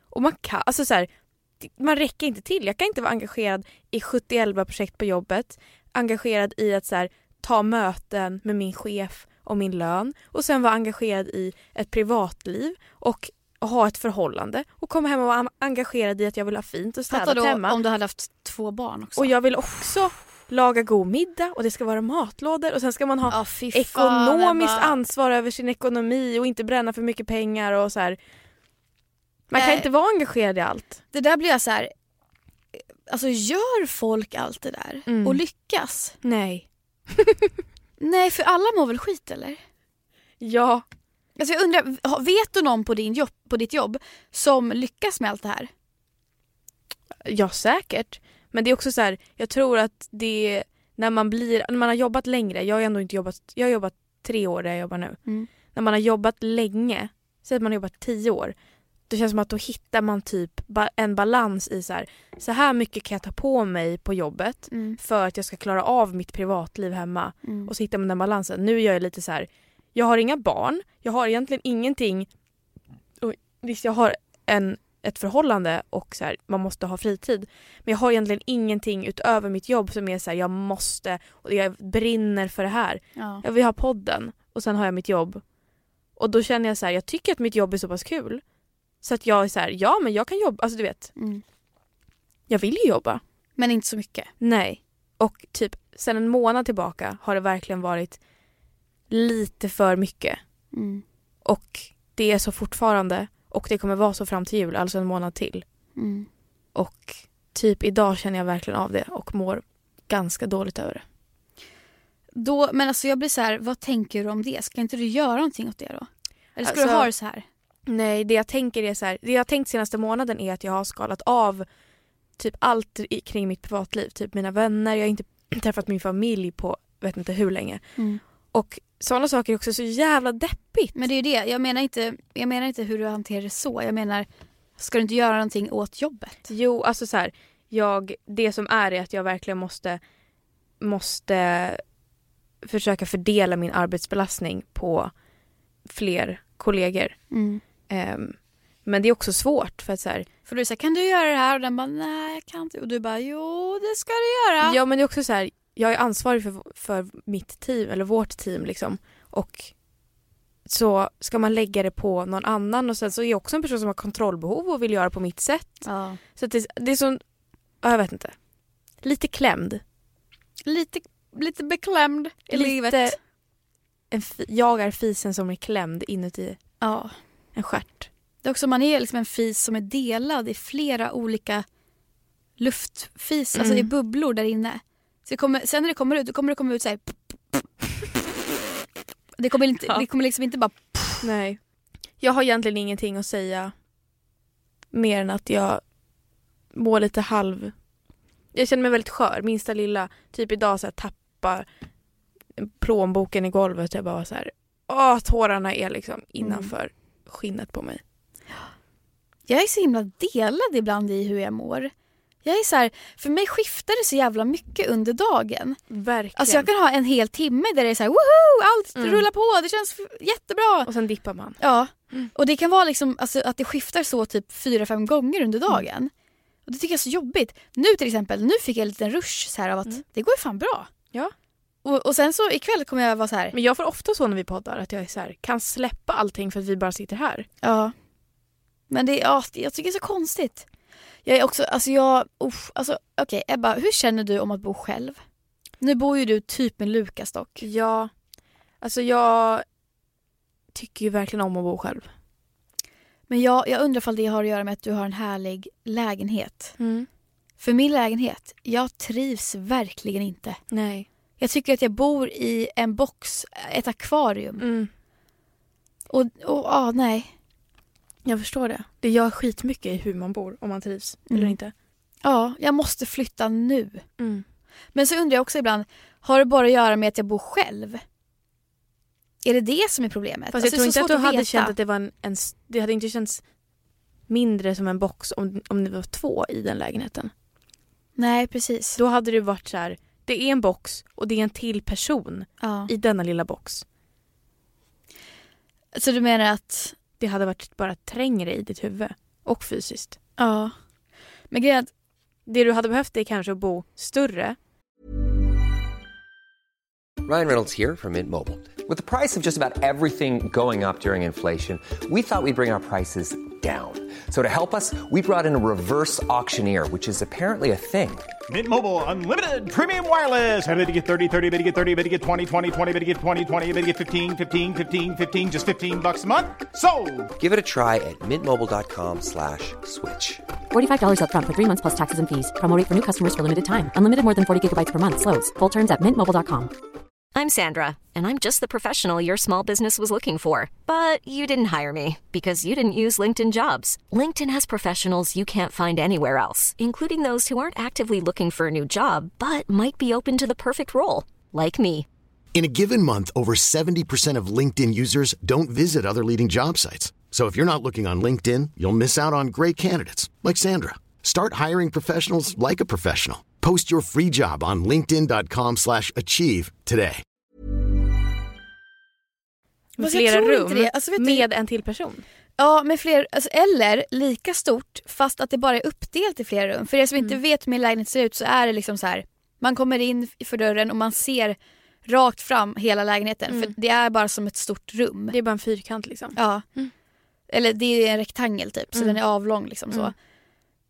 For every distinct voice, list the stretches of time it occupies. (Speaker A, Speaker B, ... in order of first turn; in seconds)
Speaker A: 0.1-17.8, 19.2-28.2, 29.5-31.0, 35.1-35.4, 36.2-37.5, 40.4-40.8, 47.2-55.2, 55.7-58.5, 59.1-72.3, 73.2-85.4, 86.2-88.4, 89.0-91.1, 92.5-93.2, 94.4-98.2, 99.1-100.4, 101.4-105.6, 106.7-111.0, 116.6-117.1, 117.9-121.7, 122.4-127.8, 128.5-131.0, 136.5-140.0, 140.8-141.8, 142.6-145.1, 145.9-147.3, 147.9-150.3, 154.6-159.7, 160.7-167.2, 167.8-168.4, 169.0-169.8, 172.5-173.2, 174.1-176.6, 177.5-178.1, 183.6-183.9, 191.2-191.6, 192.2-193.7, 194.9-195.8, 196.7-197.7, 198.5-201.7, 202.6-208.0, 215.9-216.7, 219.0-219.2, 220.8-221.6, 233.5-237.5, 247.6-248.1, 248.8-249.6, 250.7-252.1, 256.8-257.1, 260.7-261.1, 264.6-264.9, 268.2-271.7, 274.2-274.4, 280.5-283.4, 284.3-287.3, 289.0-293.8, 297.2-300.1, 302.5-304.6, 369.9-372.2, 385.3-386.9, 388.9-389.2
Speaker B: 17.1-19.3, 23.3-25.0, 29.5-29.9, 31.1-31.9, 32.8-36.2, 38.0-39.6, 41.4-45.7, 64.7-65.0, 67.4-67.7, 83.2-83.4, 91.2-91.4, 93.6-94.3, 100.7-101.0, 106.0-106.3, 112.3-117.4, 130.9-134.3, 134.8-136.3, 147.3-147.6, 150.4-154.8, 165.8-166.2, 170.7-173.2, 176.8-177.2, 178.4-181.6, 182.6-187.7, 189.4-191.3, 206.4-206.7, 209.5-211.9, 212.4-215.8, 216.3-220.9, 221.6-226.1, 226.7-230.9, 231.8-233.5, 237.6-237.9, 238.9-240.7, 241.2-245.2, 245.8-247.6, 253.3-256.8, 257.6-260.6, 261.4-264.6, 266.1-267.3, 271.3-271.6, 272.2-274.0, 274.9-278.0, 279.4-281.7, 288.2-289.0, 292.6-292.9, 295.9-296.9, 300.4-300.7, 301.5-301.9, 370.0-371.5, 372.6-385.3, 386.3-386.6, 387.5-390.1
Speaker C: 307.2-318.4, 327.4-330.4
Speaker D: 318.5-327.3
Speaker E: 330.7-336.7
Speaker F: 337.3-352.1
Speaker G: 352.5-367.2